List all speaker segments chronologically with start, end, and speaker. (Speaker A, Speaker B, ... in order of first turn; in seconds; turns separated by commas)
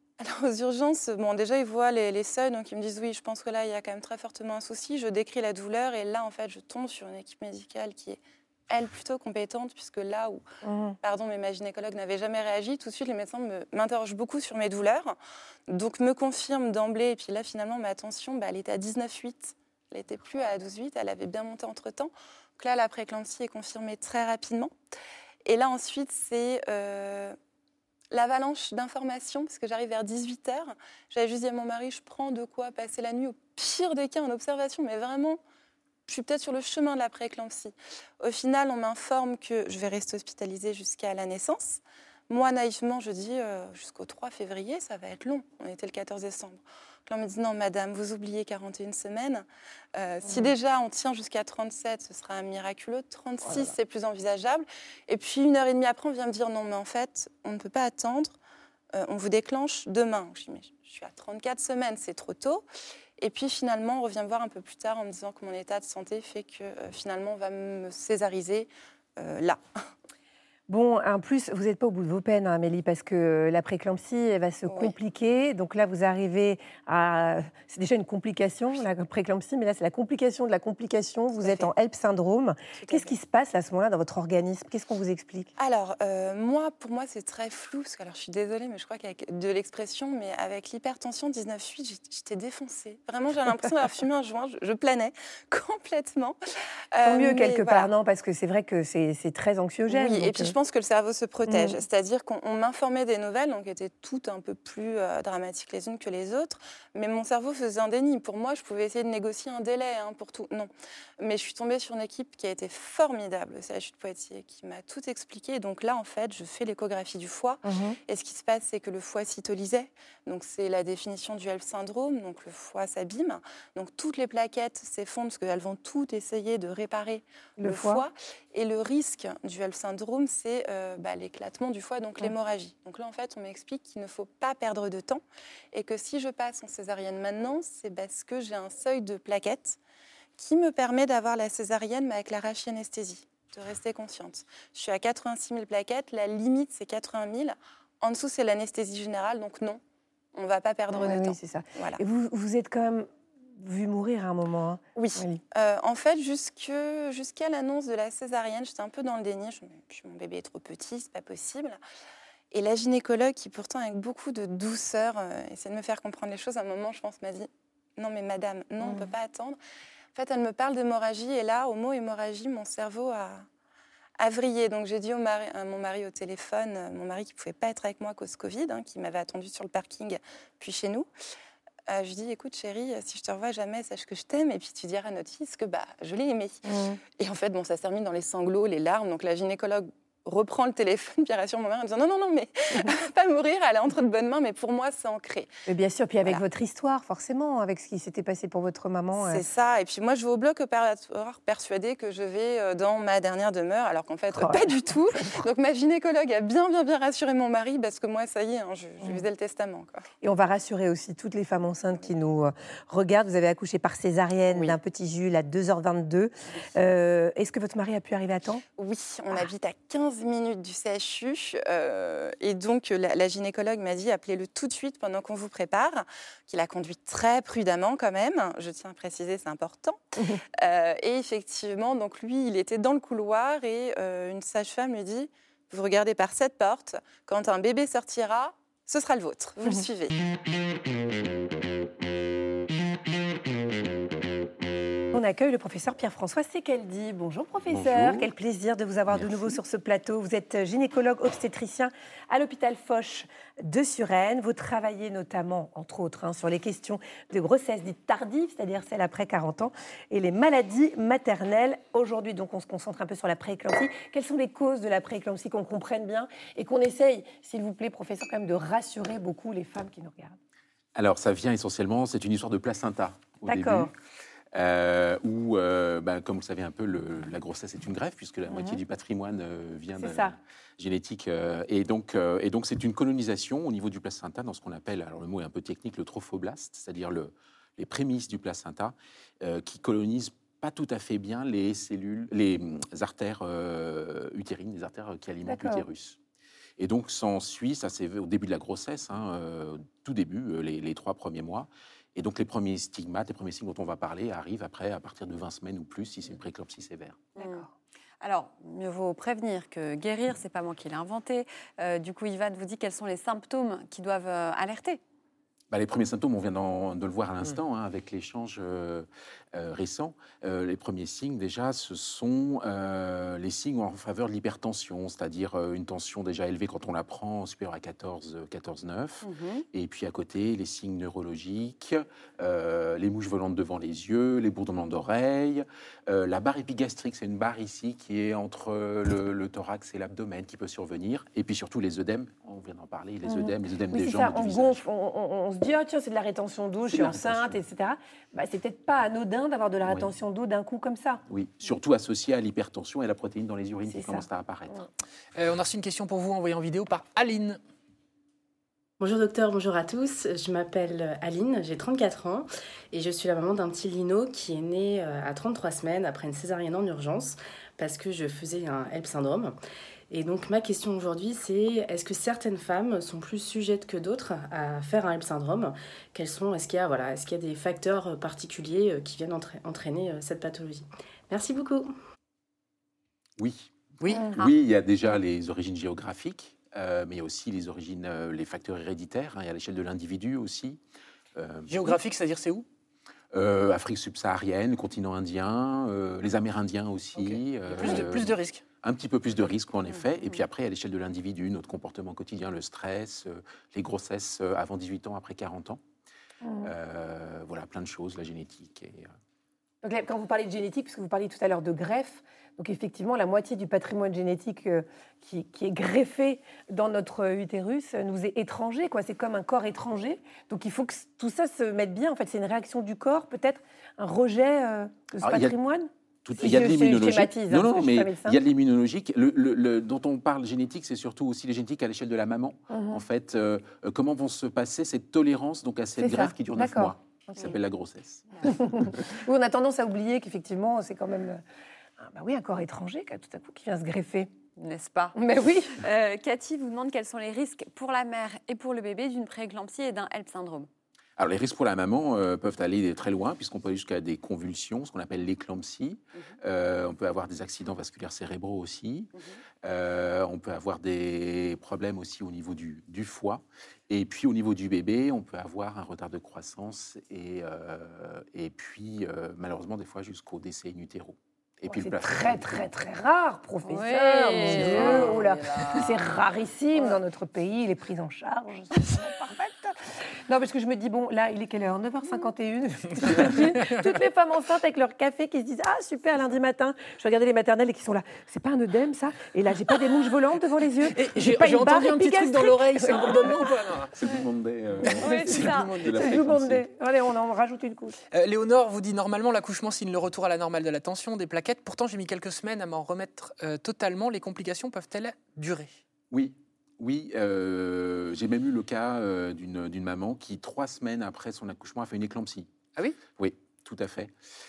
Speaker A: 0.2-10.4, Speaker B: 10.6-11.0, Speaker A: 11.0-15.2, Speaker A: 15.7-24.7, Speaker A: 25.4-27.3, Speaker A: 28.1-35.4, Speaker A: 36.1-58.4, Speaker B: 50.2-50.5, Speaker B: 53.5-53.7, Speaker A: 58.9-62.6, Speaker A: 63.2-69.6, Speaker B: 70.7-85.5, Speaker A: 74.7-74.9, Speaker A: 81.4-81.7, Speaker A: 82.7-83.2, Speaker A: 85.6-96.4, Speaker A: 96.9-97.9, Speaker B: 97.0-100.5, Speaker A: 99.9-110.7, Speaker B: 101.5-101.8, Speaker A: 111.2-139.8, Speaker B: 117.6-118.0, Speaker B: 127.6-128.0, Speaker A: 140.4-149.8, Speaker A: 150.3-152.0, Speaker B: 150.9-153.1, Speaker B: 153.6-155.4, Speaker A: 154.9-161.8, Speaker A: 162.5-169.6, Speaker B: 168.8-169.1, Speaker A: 170.1-173.4, Speaker A: 174.2-181.1, Speaker A: 181.9-186.6, Speaker B: 186.6-187.0, Speaker A: 187.2-195.5, Speaker B: 195.7-199.4, Speaker A: 199.1-210.0, Speaker B: 204.3-204.7, Speaker B: 210.2-218.6, Speaker A: 214.5-214.8, Speaker A: 218.8-230.0, Speaker B: 230.2-230.4, Speaker A: 230.6-240.1, Speaker B: 245.1-270.4, Speaker C: 247.7-248.3, Speaker C: 249.1-249.5, Speaker C: 270.9-273.9, Speaker B: 273.4-273.9, Speaker C: 274.5-296.2, Speaker B: 278.5-278.8, Speaker B: 279.9-280.4, Speaker B: 295.4-295.8, Speaker C: 296.8-307.2, Speaker D: 307.3-307.6, Speaker D: 308.2-315.0, Speaker C: 315.7-344.8, Speaker D: 329.2-329.6, Speaker B: 343.2-351.2, Speaker C: 346.9-347.6, Speaker C: 349.8-350.1, Speaker C: 351.3-354.8, Speaker B: 353.9-354.9, Speaker E: 355.3-357.6, Speaker F: 359.0-369.5, Speaker F: 370.1-381.9, Speaker C: 383.4-390.8, Speaker E: 384.0-384.5, Speaker C: 391.3-391.9, Speaker E: 391.7-392.6, Speaker C: 393.3-405.8, Speaker E: 397.2-398.6, Speaker D: 399.9-400.4, Speaker B: 406.4-406.7, Speaker C: 406.6-409.1, Speaker B: 409.8-428.4, Speaker C: 425.2-425.5, Speaker C: 426.2-438.4, Speaker B: 432.7-433.0, Speaker B: 436.0-437.5, Speaker B: 438.4-441.4, Speaker B: 442.0-444.3, Speaker D: 444.6-445.1, Speaker B: 445.1-445.8, Speaker D: 445.7-450.7, Speaker C: 451.2-459.1, Speaker D: 459.1-459.4, Speaker C: 459.6-472.7, Speaker B: 471.7-493.6, Speaker D: 473.6-476.2, Speaker C: 474.9-475.2, Speaker D: 476.7-477.0, Speaker E: 490.9-493.9, Speaker C: 493.9-496.6, Speaker D: 494.9-496.2, Speaker E: 495.3-495.9, Speaker B: 495.9-498.0, Speaker E: 498.1-505.8, Speaker C: 506.1-512.5, Speaker C: 513.1-514.1